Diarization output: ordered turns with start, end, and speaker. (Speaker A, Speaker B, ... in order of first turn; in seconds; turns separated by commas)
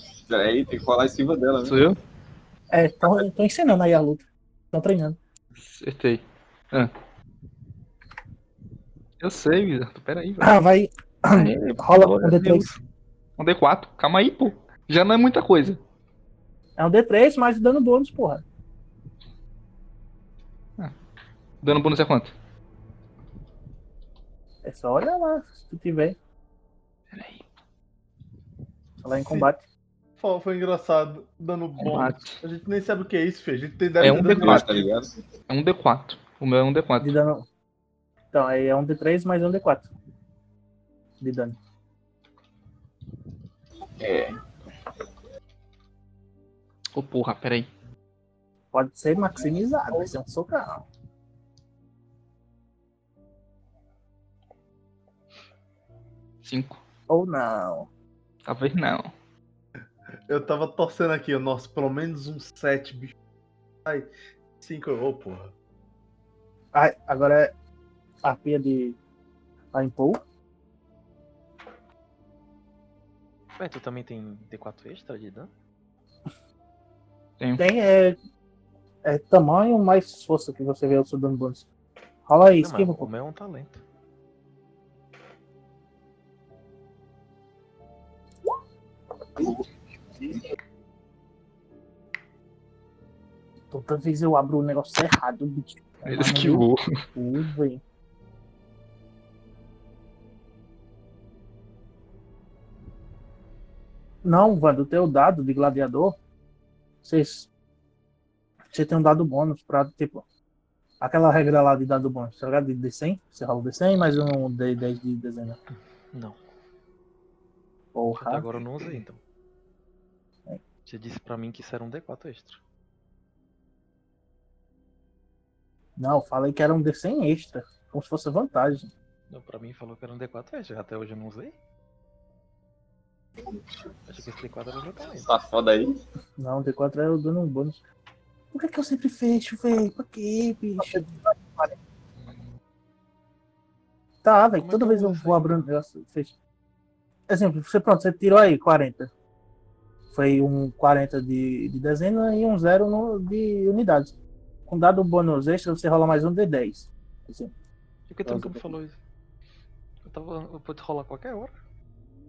Speaker A: 0.3-1.8, Speaker B: 1.6-2.0, Speaker C: 2.7-5.2, Speaker B: 5.6-6.9, Speaker B: 9.2-10.5, Speaker C: 10.4-12.7, Speaker B: 11.3-12.8, Speaker B: 13.4-15.8, Speaker C: 16.8-18.4, Speaker B: 21.6-22.3, Speaker C: 24.6-26.2, Speaker B: 27.1-27.4, Speaker C: 29.0-29.6, Speaker D: 30.2-34.9, Speaker B: 31.8-32.4, Speaker B: 34.0-34.8, Speaker A: 34.0-35.1, Speaker B: 35.5-37.1, Speaker C: 37.0-37.5, Speaker C: 38.3-39.9, Speaker C: 41.2-41.6, Speaker A: 44.0-44.4, Speaker B: 46.9-47.7, Speaker C: 48.7-50.8, Speaker B: 56.4-56.8, Speaker C: 57.1-57.9, Speaker B: 58.5-59.1, Speaker D: 60.3-63.1, Speaker D: 64.6-65.5, Speaker C: 66.7-67.5, Speaker C: 68.2-69.0, Speaker C: 69.7-70.2, Speaker E: 73.6-75.5, Speaker C: 77.6-78.2, Speaker C: 79.0-81.7, Speaker C: 82.3-83.1, Speaker E: 82.6-83.8, Speaker C: 93.7-97.8, Speaker B: 96.1-96.8, Speaker C: 104.2-106.2, Speaker C: 107.0-107.5, Speaker C: 108.7-110.2, Speaker C: 111.0-115.6, Speaker E: 116.1-116.4, Speaker C: 118.0-118.5, Speaker E: 118.2-119.2, Speaker E: 120.9-122.6, Speaker C: 126.0-128.9, Speaker E: 129.3-131.6, Speaker E: 134.1-135.3, Speaker A: 135.2-136.0, Speaker C: 136.4-137.8, Speaker C: 138.5-141.1, Speaker C: 144.2-146.4, Speaker E: 144.5-145.6, Speaker C: 147.3-149.1, Speaker C: 150.1-154.1, Speaker C: 154.7-157.5, Speaker E: 158.1-159.0, Speaker C: 158.2-158.8, Speaker E: 160.1-161.5